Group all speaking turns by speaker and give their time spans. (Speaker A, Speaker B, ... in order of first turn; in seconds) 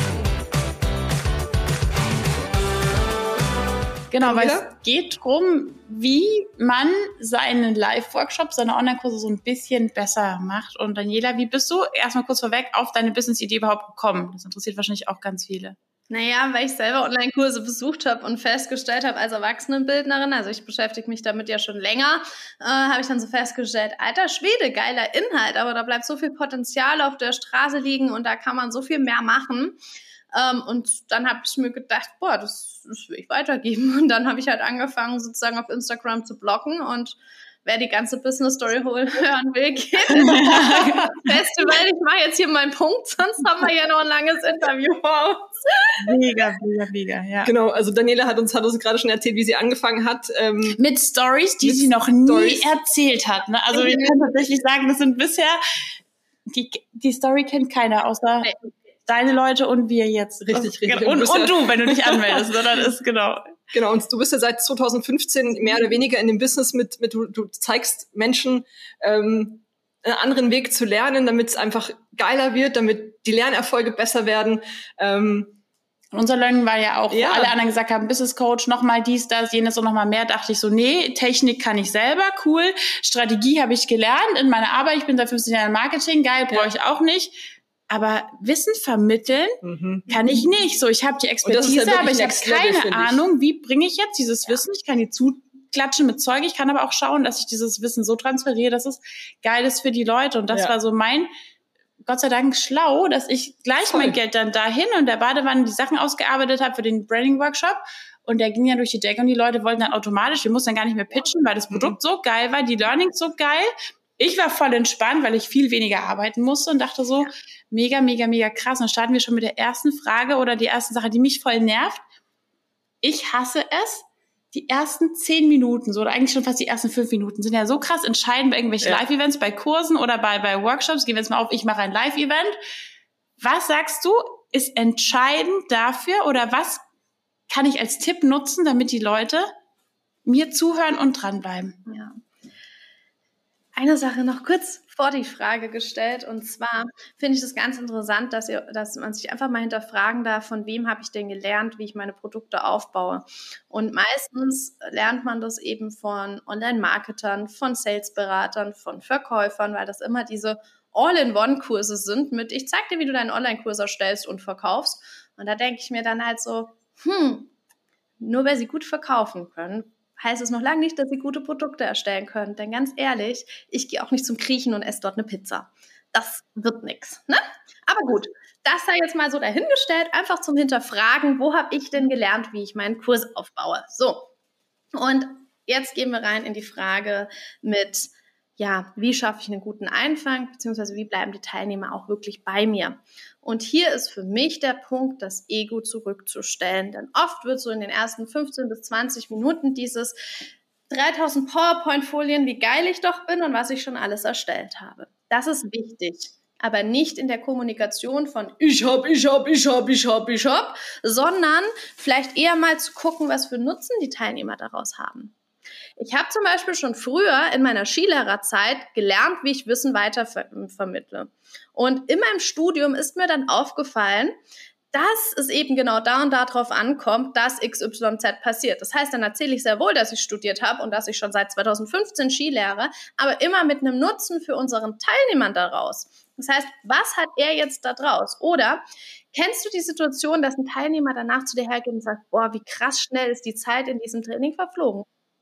Speaker A: 4.1-15.8, 40.3-41.1, 46.0-47.5, 50.8-55.6, 56.5-63.5, 76.1-101.3, 102.0-122.0, 123.0-132.6, 133.4-136.8, 137.5-139.5, 140.2-141.8
Speaker B: 4.2-4.7, 47.4-50.8, 51.6-52.7, 60.5-62.5, 63.7-75.6, 77.1-77.5, 89.6-90.2, 91.4-93.2, 103.8-104.2, 111.7-112.0
Speaker C: 16.1-29.8, 30.3-46.0, 53.7-54.1, 141.8-142.2, 143.8-167.5, 168.2-184.3, 184.9-200.2, 200.9-215.3, 216.0-224.4, 224.9-245.1